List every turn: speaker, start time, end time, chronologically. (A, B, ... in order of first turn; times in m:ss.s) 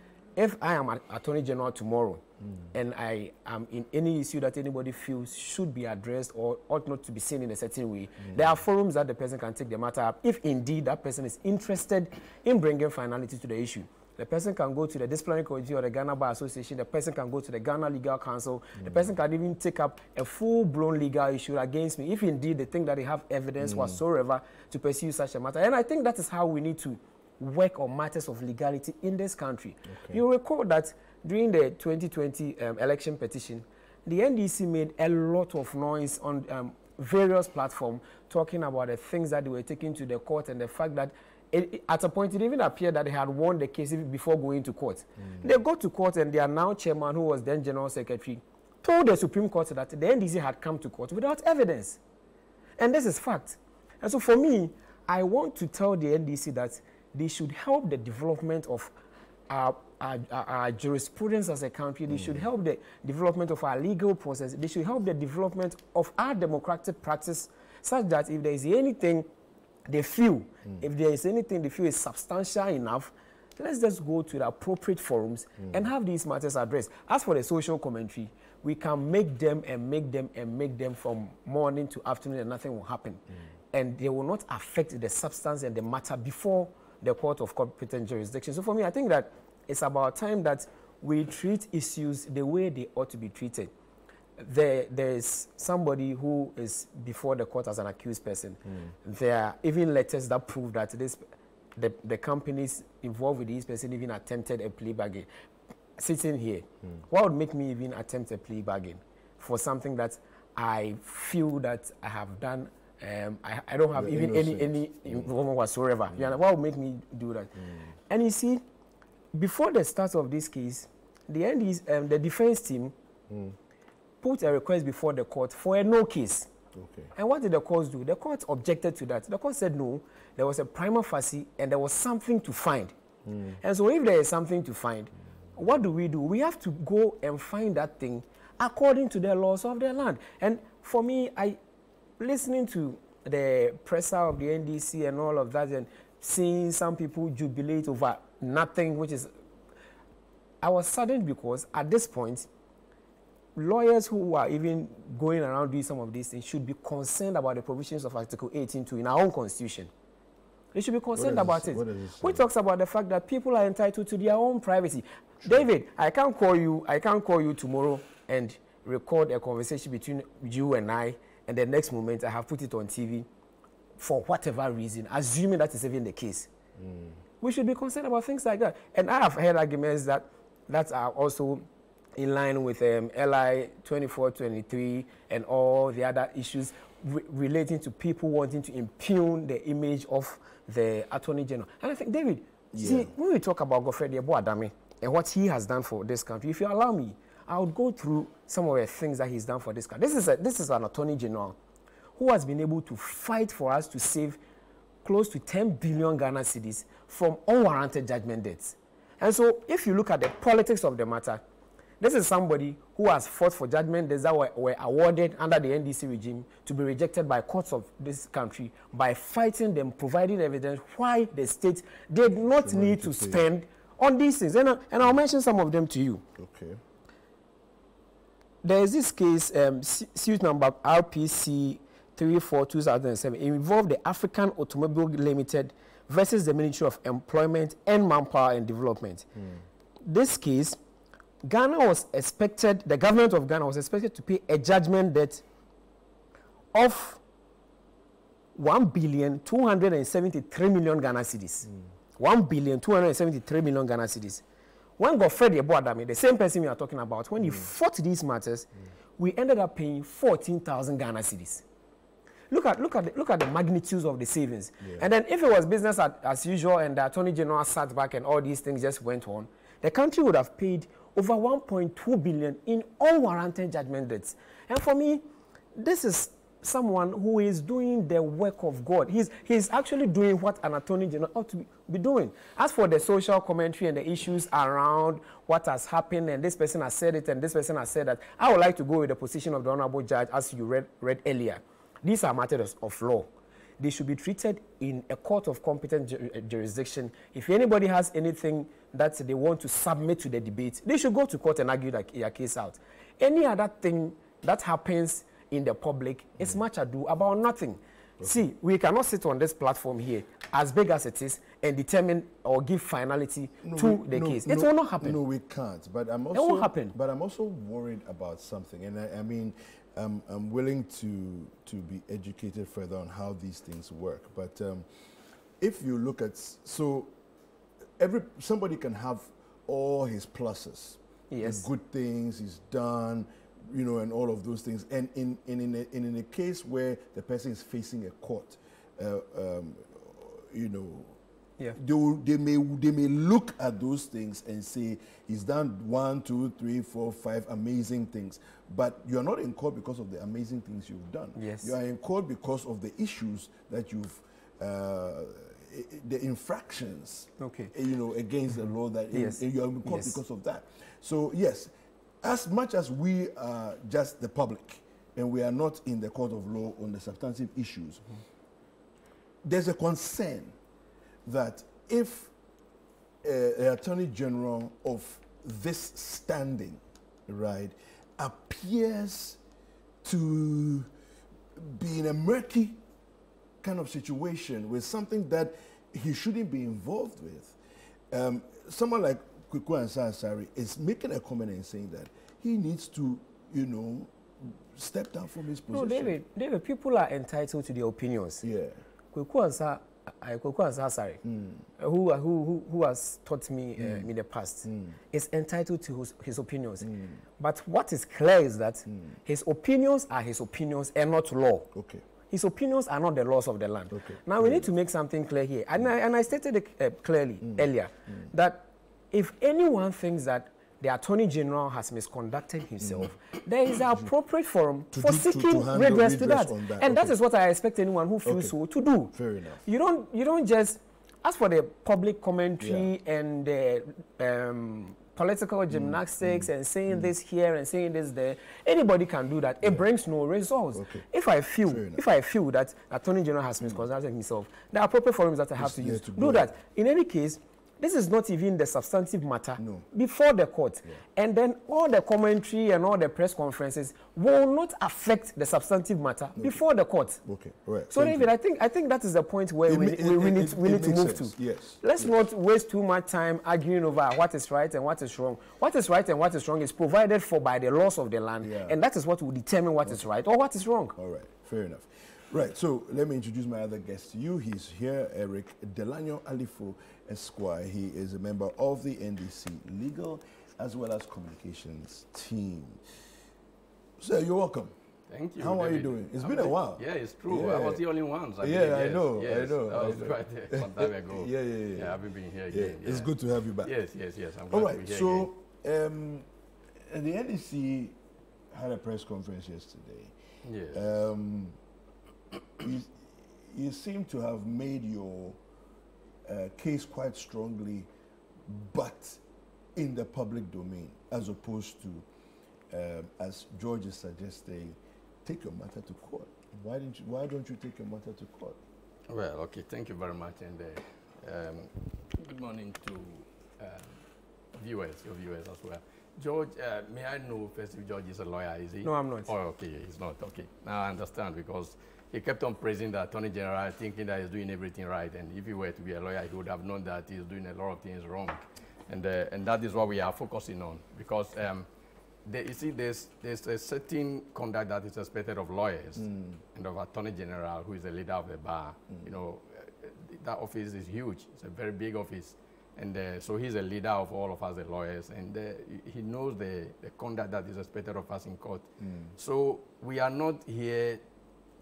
0:00.3-0:52.0 A
0:02.4-0:02.7 B
0:18.8-0:19.0 B
0:23.6-0:24.0 B
0:29.8-0:30.2 B
0:45.2-0:45.5 B
0:52.8-0:58.9 A
0:59.5-1:09.3 A
1:02.1-1:02.4 B
1:09.9-1:33.7 A
1:34.4-1:41.2 A
1:38.6-1:38.9 B
1:41.8-1:45.3 A
1:46.0-1:57.5 A
1:53.9-1:55.3 B
1:57.6-1:57.9 B
1:58.1-1:58.6 A
1:59.3-2:02.9 A
2:03.3-2:03.6 B
2:04.2-2:06.5 A
2:06.7-2:07.1 B
2:07.2-2:12.9 A
2:13.2-2:13.6 B
2:13.6-2:21.6 A
2:22.2-2:29.3 A
2:30.6-2:32.5 A
2:33.6-2:39.9 A
2:40.7-2:53.3 A
2:41.1-2:42.5 B
2:54.0-2:56.5 A
2:56.8-2:57.2 B
2:57.4-3:01.6 A
3:02.2-3:21.6 A
3:12.7-3:13.1 B
3:22.2-3:24.4 A
3:25.0-3:31.4 A
3:32.0-3:46.2 A
3:42.5-3:43.4 B
3:46.4-3:46.8 B
3:48.6-3:59.3 A
3:59.4-3:59.6 B
4:00.0-4:00.8 A
4:01.4-4:05.4 A
4:06.7-4:07.2 A
4:08.5-4:14.4 A
4:15.0-4:21.6 A
4:17.4-4:17.7 B
4:22.5-4:35.2 A
4:24.8-4:25.1 B
4:35.7-5:15.2 A
5:13.6-5:24.8 B
5:16.3-5:16.9 A
5:25.6-5:27.1 B
5:28.0-5:41.2 B
5:31.3-5:31.7 A
5:41.7-6:08.0 B
5:51.4-5:51.7 A
5:57.4-5:57.7 A
5:59.1-6:00.2 A
6:09.4-6:10.5 B
6:11.2-6:12.3 B
6:13.2-6:19.4 B
6:20.0-6:20.9 B
6:21.6-6:22.8 B
6:23.6-6:27.6 B
6:28.1-6:36.2 B
6:35.7-6:38.4 A
6:38.4-6:38.8 B
6:39.1-6:41.2 A
6:41.2-6:41.6 B
6:41.8-6:51.7 A
6:43.8-6:44.1 B
6:44.6-6:45.0 B
6:46.8-6:47.2 B
6:48.9-6:49.2 B
6:51.7-6:52.0 B
6:52.3-7:37.2 A
6:53.9-6:54.7 B
6:57.4-6:58.3 B
7:02.8-7:03.1 B
7:04.9-7:07.2 B
7:08.2-7:08.6 B
7:09.1-7:09.6 B
7:12.6-7:12.9 B
7:15.7-7:17.1 B
7:19.6-7:19.9 B
7:20.7-7:21.1 B
7:21.6-7:22.0 B
7:25.6-7:26.5 B
7:29.6-7:29.8 B
7:36.4-7:36.6 B
7:37.2-7:38.3 B
7:37.9-7:51.0 A
7:39.6-7:42.2 B
7:48.4-7:48.8 B
7:51.0-8:02.8 B
8:04.0-8:04.7 B
8:05.1-8:13.1 C
8:05.4-8:07.8 B
8:08.4-8:13.7 B
8:13.6-8:15.3 C
8:14.5-8:16.3 B
8:16.8-8:18.0 B
8:18.5-8:20.1 B
8:20.4-8:20.9 C
8:20.7-8:21.6 B
8:22.6-8:25.4 B
8:26.2-8:27.9 B
8:28.4-8:29.2 B
8:29.8-8:32.0 B
8:32.7-8:38.6 B
8:39.1-8:44.0 C
8:44.5-9:01.6 C
8:48.8-8:49.3 A
9:02.2-9:21.0 C
9:06.0-9:06.4 B
9:18.8-9:19.1 B